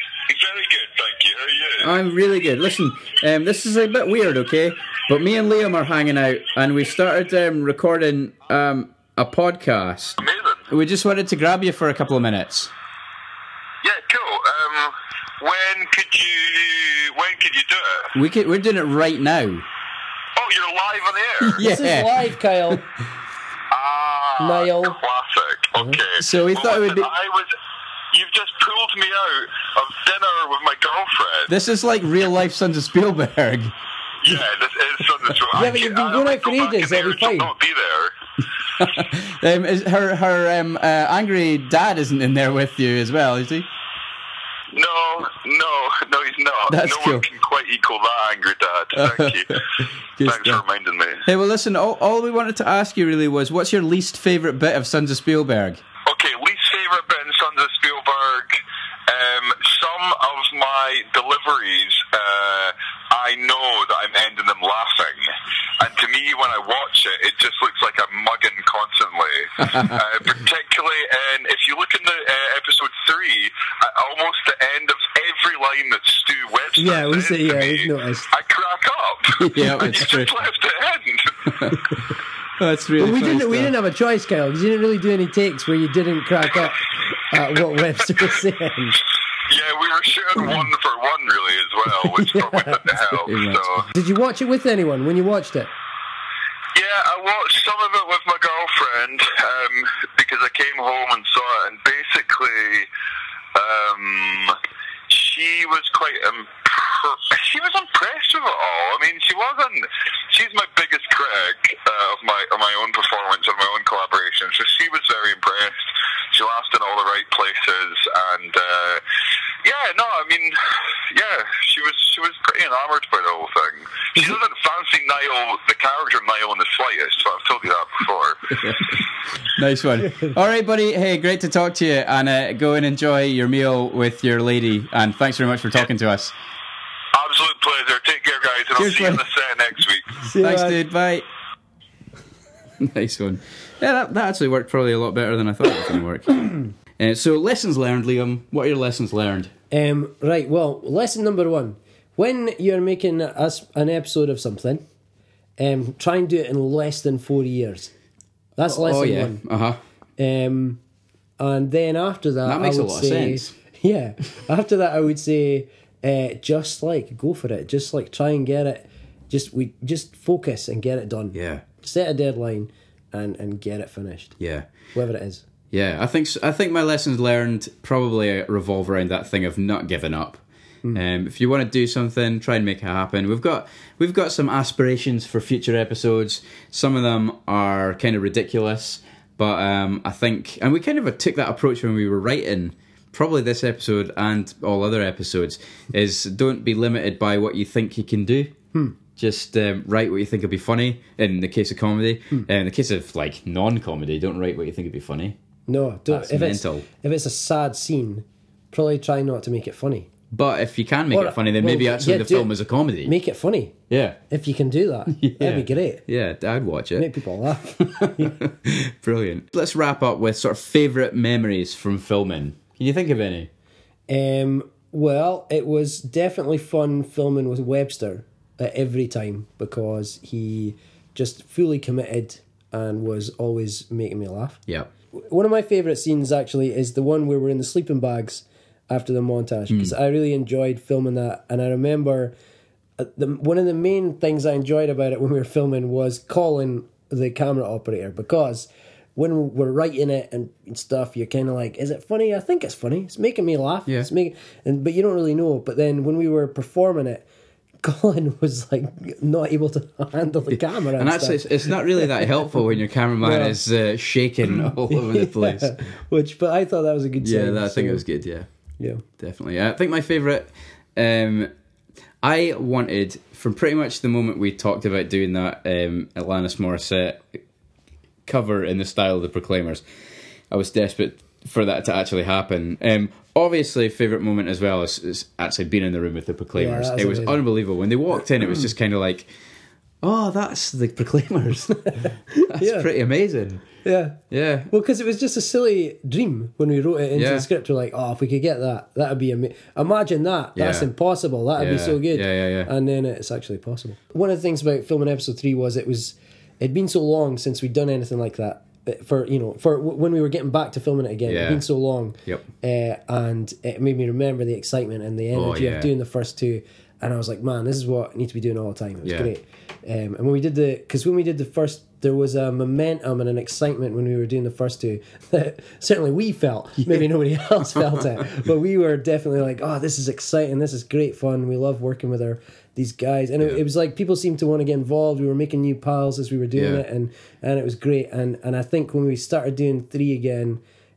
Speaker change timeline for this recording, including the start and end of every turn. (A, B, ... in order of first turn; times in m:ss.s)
0:00.3-0:02.0 A
0:01.8-0:12.7 B
0:10.2-0:10.6 A
0:13.8-0:18.1 A
0:18.2-0:19.6 B
0:20.4-0:21.7 A
0:21.5-0:22.8 C
0:21.5-0:22.8 B
0:23.7-0:27.5 A
0:24.4-0:25.0 C
0:26.2-0:27.1 B
0:28.1-0:31.5 A
0:31.5-0:33.7 B
0:34.2-0:38.1 A
0:35.5-0:37.5 C
0:38.8-0:43.7 B
0:44.7-0:49.6 A
0:46.7-0:47.3 B
0:49.0-0:49.6 B
0:50.2-0:50.6 B
0:50.2-0:51.3 A
0:51.3-0:55.8 B
0:56.1-1:21.4 A
1:09.7-1:09.9 B
1:16.8-1:18.3 C
1:19.4-1:20.3 B
1:21.5-1:22.0 B
1:22.6-1:23.8 B
1:23.0-1:29.0 C
1:29.5-1:33.9 A
1:32.0-1:32.8 C
1:33.3-1:33.7 B
1:33.9-1:35.7 C
1:36.8-1:42.9 A
1:43.6-1:44.6 A
1:45.1-1:59.0 A
1:59.6-2:08.6 A
2:08.6-2:09.0 B
2:09.6-2:16.3 B
2:17.1-2:20.2 A
2:18.8-2:19.3 B
2:20.2-2:20.8 C
2:20.4-2:21.3 B
2:22.8-2:29.5 B
2:29.7-2:34.8 C
2:35.6-2:37.9 C
2:38.6-2:39.4 C
2:38.6-2:39.8 B
2:40.2-2:40.8 C
2:41.4-2:54.4 C
2:42.4-2:43.5 B
2:51.3-2:51.6 B
2:54.4-2:54.7 B
2:54.9-2:55.4 C
2:55.7-3:00.4 B
3:00.9-3:18.5 B
3:19.2-3:25.4 B
3:25.7-3:30.1 C
3:26.1-3:26.9 B
3:30.3-3:33.1 B
3:31.1-3:33.7 C
3:33.9-3:34.2 B
3:34.3-3:36.0 C
3:35.2-3:37.1 B
3:37.0-3:38.4 C
3:38.0-3:43.5 B
3:44.1-3:54.6 C
3:55.2-4:02.3 C
3:59.7-4:00.0 B
4:03.0-4:17.3 C
4:17.8-4:22.3 C
4:20.5-4:25.8 B
4:23.2-4:23.6 C
4:24.6-4:28.0 C
4:27.2-4:28.5 B
4:29.2-4:31.5 B
4:32.2-4:37.4 B
4:38.3-4:39.8 B
4:40.5-4:49.3 B
4:46.6-4:47.4 C
4:50.0-4:53.6 B
4:52.0-4:52.9 C
4:53.8-4:54.2 C
4:54.3-4:54.7 B
4:54.7-5:40.6 C
4:57.1-4:57.5 B
5:00.6-5:00.9 B
5:01.6-5:02.7 B
5:11.3-5:11.6 B
5:15.3-5:15.9 B
5:19.0-5:19.3 B
5:36.6-5:36.8 B